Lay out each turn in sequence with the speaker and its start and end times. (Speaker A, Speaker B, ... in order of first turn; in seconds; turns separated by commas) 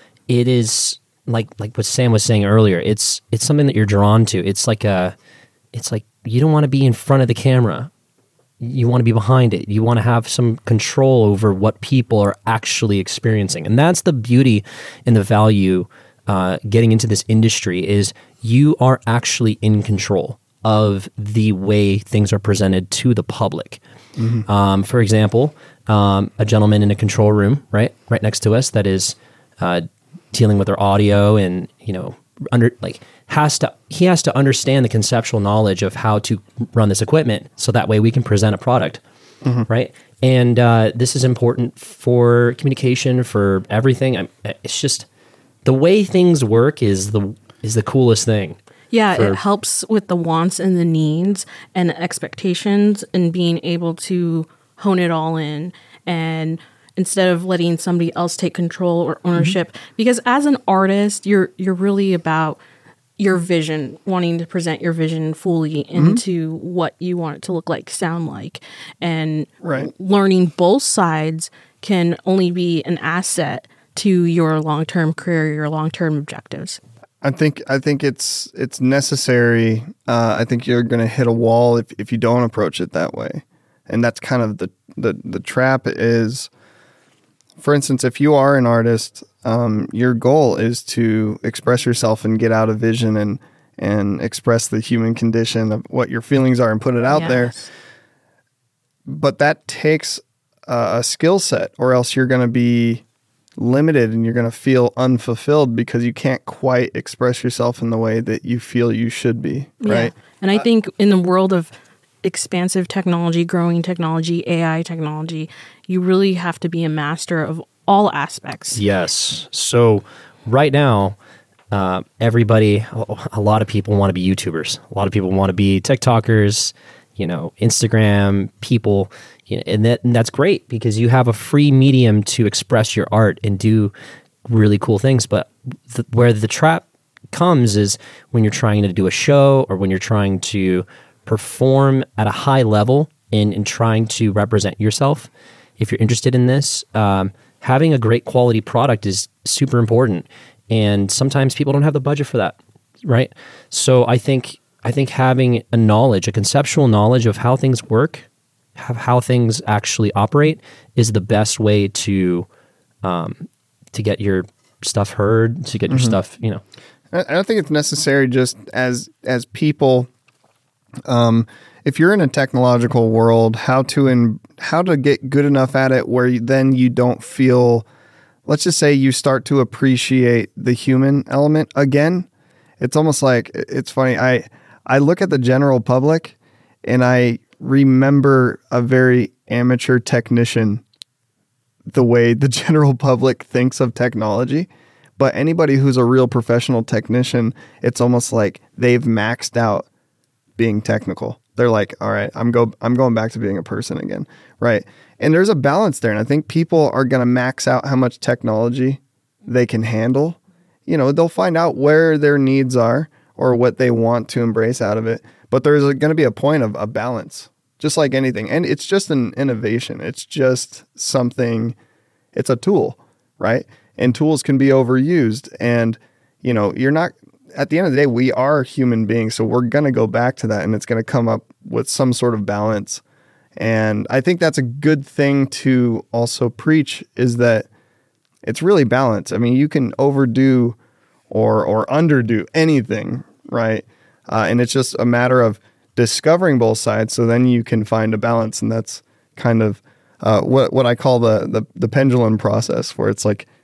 Speaker A: 0.3-5.2, Speaker A: 5.7-7.9, Speaker A: 8.6-23.8, Speaker B: 24.2-24.4, Speaker A: 24.5-39.0, Speaker A: 39.7-45.1, Speaker A: 45.6-48.6, Speaker C: 48.9-62.6, Speaker A: 49.1-49.4, Speaker C: 63.2-76.8, Speaker B: 66.0-66.2, Speaker B: 69.6-69.9, Speaker B: 77.2-86.5, Speaker B: 87.6-97.5, Speaker C: 97.1-97.7, Speaker B: 99.1-103.0, Speaker B: 103.6-110.1, Speaker C: 109.8-111.7, Speaker C: 112.2-118.8, Speaker A: 118.7-121.2, Speaker A: 121.7-133.9, Speaker A: 134.5-162.5, Speaker A: 163.0-166.6, Speaker B: 165.9-166.2, Speaker B: 167.1-170.1, Speaker B: 171.1-177.9, Speaker B: 178.5-182.3, Speaker B: 182.8-190.8, Speaker B: 191.9-199.9, Speaker B: 200.6-221.8, Speaker B: 222.3-233.0, Speaker B: 233.6-237.7, Speaker B: 238.4-240.8, Speaker B: 241.3-253.5